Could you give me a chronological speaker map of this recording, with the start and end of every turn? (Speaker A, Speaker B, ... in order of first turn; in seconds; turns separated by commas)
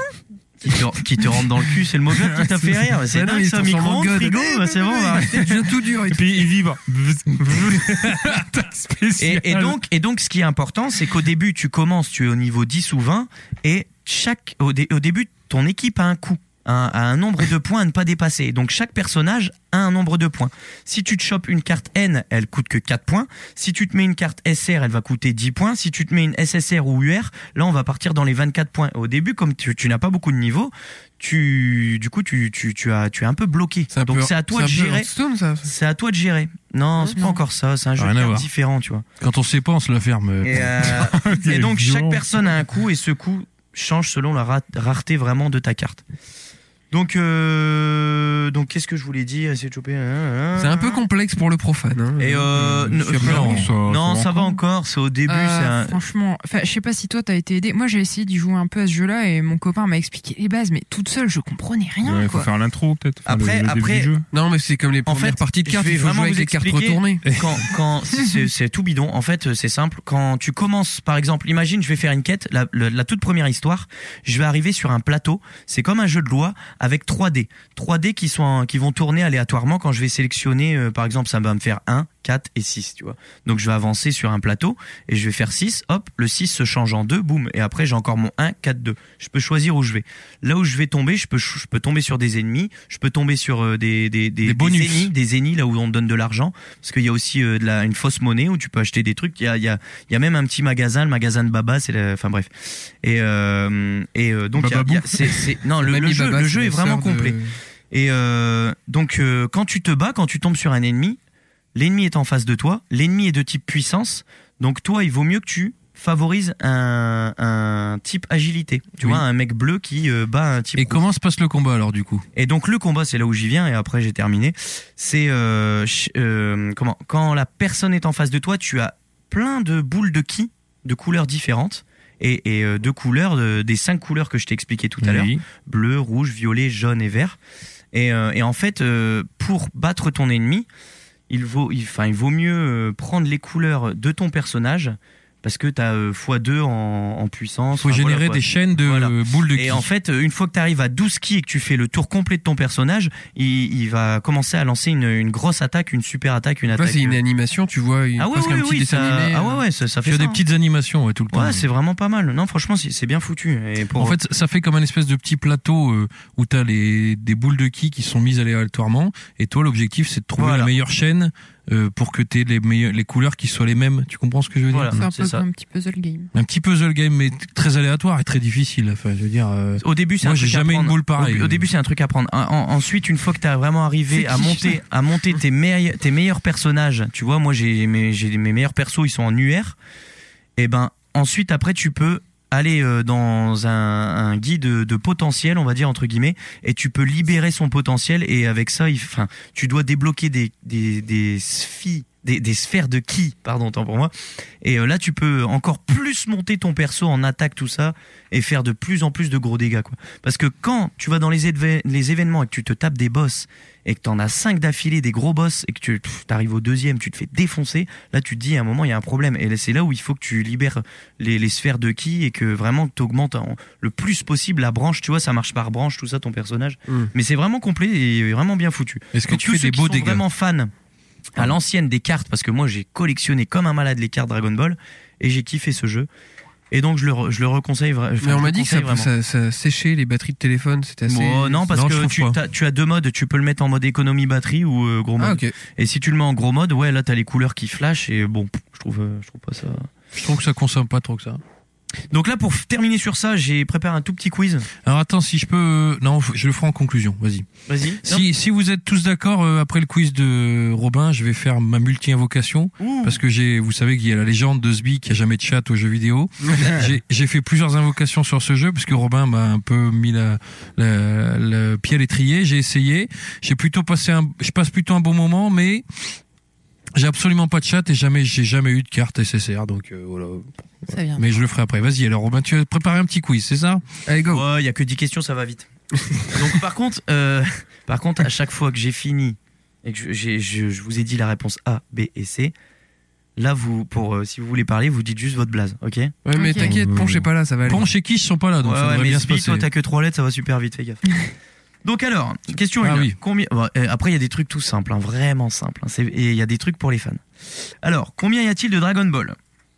Speaker A: 0.6-5.6, Speaker B: 2.1-2.9, Speaker C: 3.1-6.5, Speaker B: 5.2-9.8, Speaker A: 9.2-35.1, Speaker C: 33.9-35.7, Speaker A: 35.6-39.0, Speaker D: 37.1-37.4, Speaker E: 38.0-38.5, Speaker E: 39.2-41.1, Speaker A: 40.4-46.0, Speaker B: 41.0-42.2, Speaker A: 46.9-51.0, Speaker C: 50.6-53.7, Speaker A: 52.2-56.0, Speaker B: 53.1-54.4, Speaker E: 53.2-53.6, Speaker D: 55.3-62.5, Speaker B: 62.0-64.3, Speaker A: 63.2-64.1, Speaker C: 64.3-67.2, Speaker A: 65.1-107.4, Speaker E: 94.4-95.1, Speaker B: 104.6-105.6, Speaker C: 105.8-107.5, Speaker A: 107.9-111.2, Speaker A: 111.8-121.0, Speaker E: 120.8-122.3, Speaker A: 122.3-137.4, Speaker E: 135.0-135.4, Speaker A: 137.9-140.7, Speaker A: 141.3-157.2, Speaker E: 147.8-149.9, Speaker C: 156.7-159.6, Speaker A: 158.2-160.4, Speaker E: 160.1-161.7, Speaker A: 161.3-164.2, Speaker E: 164.0-175.0, Speaker A: 170.4-170.7, Speaker A: 174.7-175.4, Speaker D: 174.9-176.3, Speaker E: 176.3-181.7, Speaker A: 179.8-189.8, Speaker D: 184.2-184.8, Speaker A: 190.6-230.7, Speaker E: 229.1-230.2, Speaker A: 231.4-236.1, Speaker A: 236.7-239.1, Speaker C: 238.2-241.7, Speaker A: 241.1-249.9, Speaker E: 241.7-242.4, Speaker C: 245.2-245.6, Speaker E: 250.1-251.4, Speaker A: 252.1-254.7, Speaker E: 254.8-257.5, Speaker A: 257.7-258.3, Speaker E: 258.0-276.2, Speaker A: 262.8-263.2, Speaker E: 276.9-283.8, Speaker D: 280.9-281.3, Speaker C: 284.1-284.4, Speaker A: 284.3-285.7, Speaker A: 286.2-292.5, Speaker A: 293.4-296.1, Speaker C: 296.2-297.9, Speaker D: 296.3-296.7, Speaker B: 296.6-297.3, Speaker E: 297.7-299.7, Speaker A: 298.6-301.3, Speaker A: 301.8-309.4, Speaker E: 302.8-303.2